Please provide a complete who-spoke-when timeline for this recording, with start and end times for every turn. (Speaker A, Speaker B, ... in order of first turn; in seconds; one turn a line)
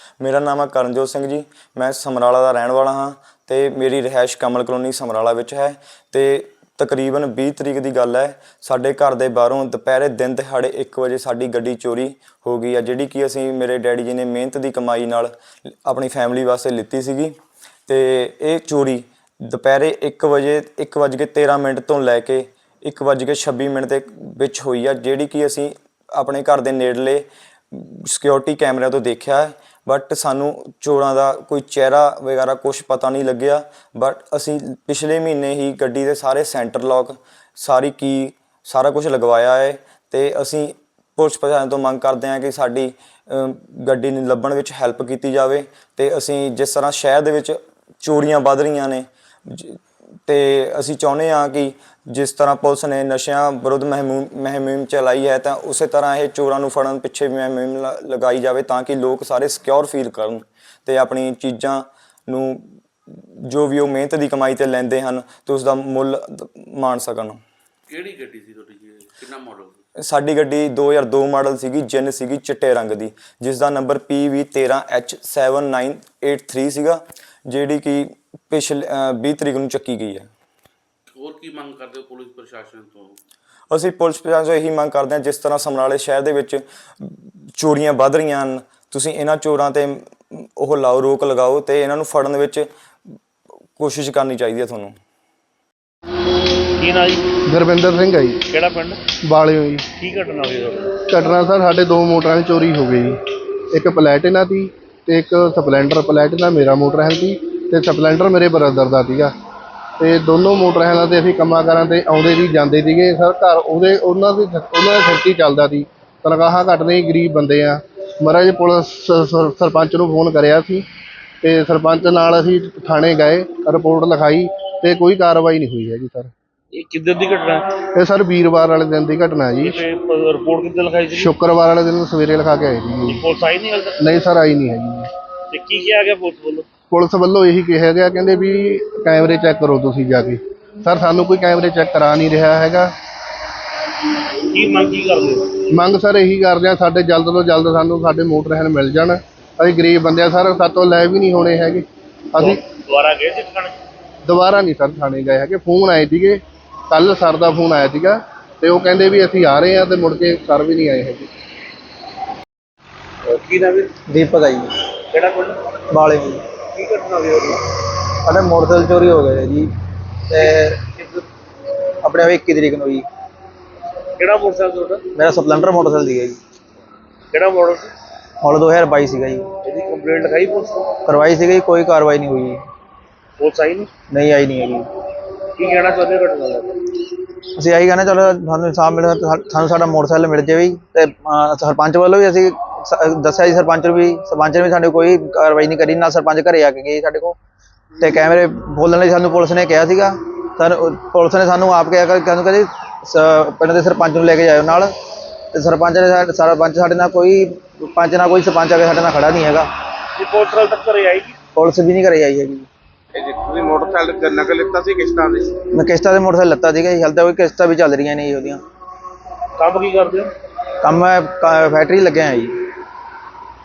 Speaker A: 0.2-17.3
Speaker A: 17.9-67.4
Speaker B: 67.9-69.8
Speaker A: 70.0-80.3
Speaker B: 81.2-83.2
Speaker A: 83.7-92.7
Speaker A: 93.8-95.0
Speaker C: 96.8-97.2
Speaker D: 97.5-98.4
Speaker C: 98.5-99.0
Speaker D: 99.2-99.9
Speaker C: 100.0-101.0
Speaker D: 101.1-103.2
Speaker D: 103.7-109.3
Speaker D: 110.0-120.8
Speaker D: 121.4-126.3
Speaker C: 126.8-127.7
Speaker D: 127.9-129.8
Speaker C: 129.6-131.3
Speaker D: 131.2-133.2
Speaker C: 133.1-134.0
Speaker D: 134.0-135.1
Speaker C: 135.5-136.7
Speaker D: 136.9-142.9
Speaker C: 144.5-145.6
Speaker D: 145.7-152.6
Speaker C: 152.4-153.7
Speaker D: 154.2-161.3
Speaker C: 163.2-163.9
Speaker E: 164.1-164.8
Speaker C: 165.1-165.7
Speaker E: 165.9-166.4
Speaker C: 166.7-167.6
Speaker E: 168.2-169.7
Speaker E: 170.3-170.8
Speaker C: 171.0-171.2
Speaker E: 172.0-173.1
Speaker C: 174.2-175.1
Speaker E: 175.2-176.4
Speaker C: 177.3-177.9
Speaker E: 178.4-179.5
Speaker C: 179.6-180.9
Speaker E: 181.1-182.6
Speaker C: 183.4-183.9
Speaker E: 184.1-184.9
Speaker C: 185.6-186.9
Speaker E: 187.6-197.3
Speaker E: 198.0-204.9
Speaker E: 205.5-209.7
Speaker C: 210.2-211.3
Speaker E: 211.6-212.7
Speaker F: 213.1-215.6
Speaker E: 215.7-218.6
Speaker C: 219.6-220.3
Speaker E: 220.8-222.6